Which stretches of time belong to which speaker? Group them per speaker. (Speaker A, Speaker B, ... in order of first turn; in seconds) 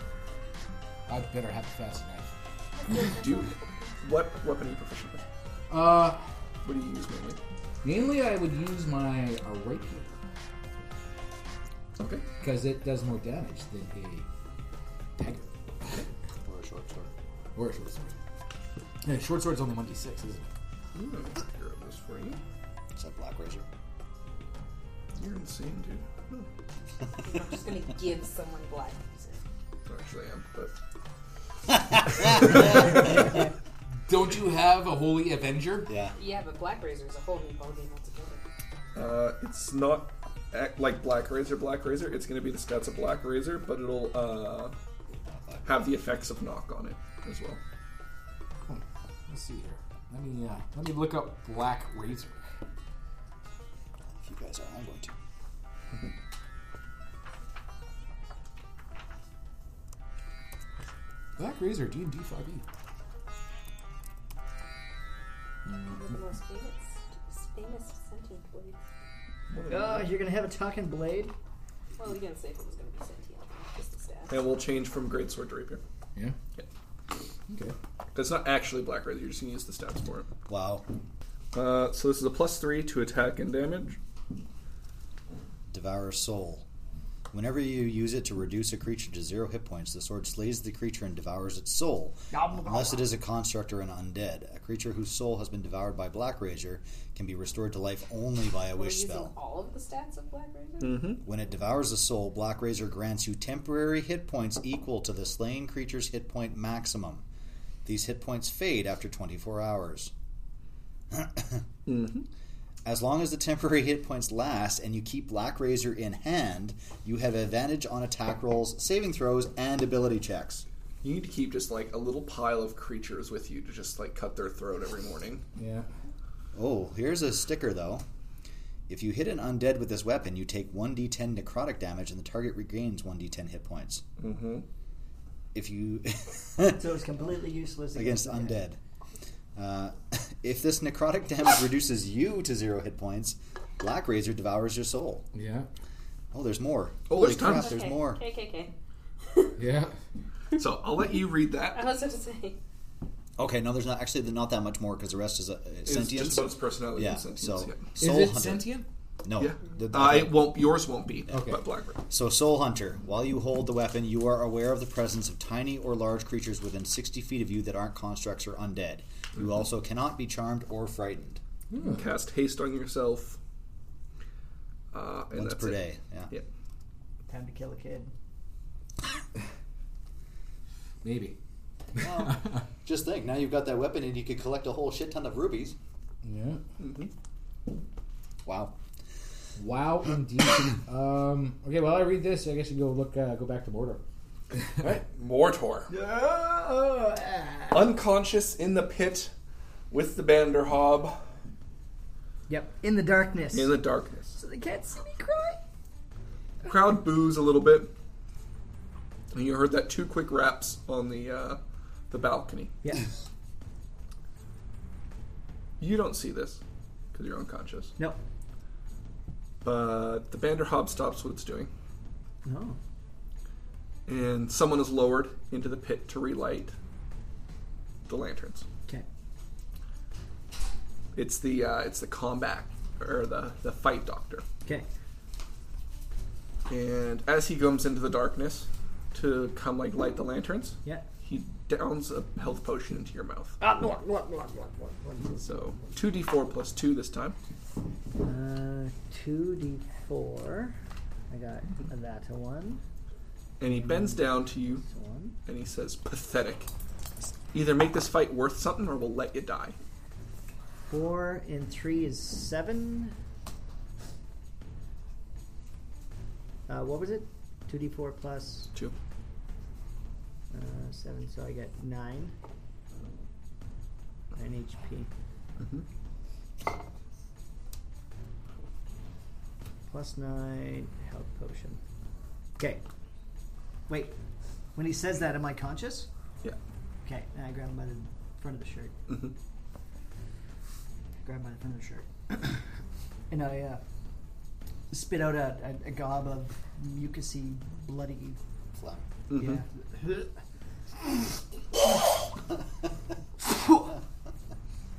Speaker A: 1.1-2.3, 5.7-6.2, 7.8-10.2, 12.4-14.3, 15.2-15.5, 17.6-18.2, 19.0-20.5, 34.1-35.9, 48.7-52.4, 61.4-62.6, 65.7-66.0, 77.5-77.8, 125.6-125.9, 145.3-145.7, 149.6-149.9, 158.0-158.9, 161.3-161.6, 171.7-172.0, 181.0-181.4, 186.2-186.6, 189.6-194.0, 194.8-195.0
Speaker B: 2.8-4.0, 27.2-29.4, 36.1-38.4, 65.9-68.8, 72.0-74.4, 98.8-101.2, 147.4-148.7, 151.7-152.6
Speaker C: 3.0-5.2, 6.6-7.4, 12.0-12.3, 20.9-22.4, 25.1-26.5, 29.9-30.7, 32.2-33.0, 39.0-44.7, 45.6-47.6, 69.5-70.2, 74.3-75.8, 78.1-80.3, 81.5-84.0, 100.8-101.2, 111.9-112.3, 121.0-125.4, 134.2-134.7, 147.1-147.8, 150.6-151.9, 155.8-157.9, 159.4-162.0, 171.8-173.4, 174.9-176.4, 186.8-187.1, 194.8-195.9, 197.7-199.3, 199.9-201.2, 203.5-204.4, 206.6-207.9, 209.3-211.6, 212.1-212.8, 215.8-216.6, 217.1-217.9, 219.6-221.7, 224.1-226.8, 228.1-228.7, 231.2-234.4, 236.7-243.6, 245.4-247.4, 253.6-254.8, 255.5-256.7, 257.5-259.8, 275.6-275.9, 299.3-299.6
Speaker D: 16.4-17.1, 23.0-23.7, 31.9-33.0, 35.9-36.2, 45.3-45.8, 54.1-55.1, 80.5-80.9, 85.7-86.7, 87.3-99.3, 101.2-107.2, 107.8-110.1, 111.1-111.6, 112.8-120.7, 126.5-128.1, 128.9-134.0, 135.5-136.9, 137.9-138.8, 139.6-145.2, 146.3-148.2, 153.4-160.5, 162.1-171.4, 175.3-176.3, 181.9-185.8, 188.4-188.8, 298.7-299.1
Speaker E: 69.7-71.3, 92.3-93.0, 136.7-138.6, 177.3-178.1, 195.9-197.9, 202.5-203.8, 204.4-205.6, 212.8-213.1, 222.4-222.8, 243.6-246.0, 248.2-250.8, 251.3-252.8, 253.7-255.4, 260.9-263.1, 266.7-268.7, 270.5-272.3, 274.3-275.1, 279.9-281.8, 283.9-284.2, 284.8-286.1, 287.1-288.9, 291.2-292.6, 293.3-293.8, 294.9-298.4, 299.4-300.3, 303.4-303.9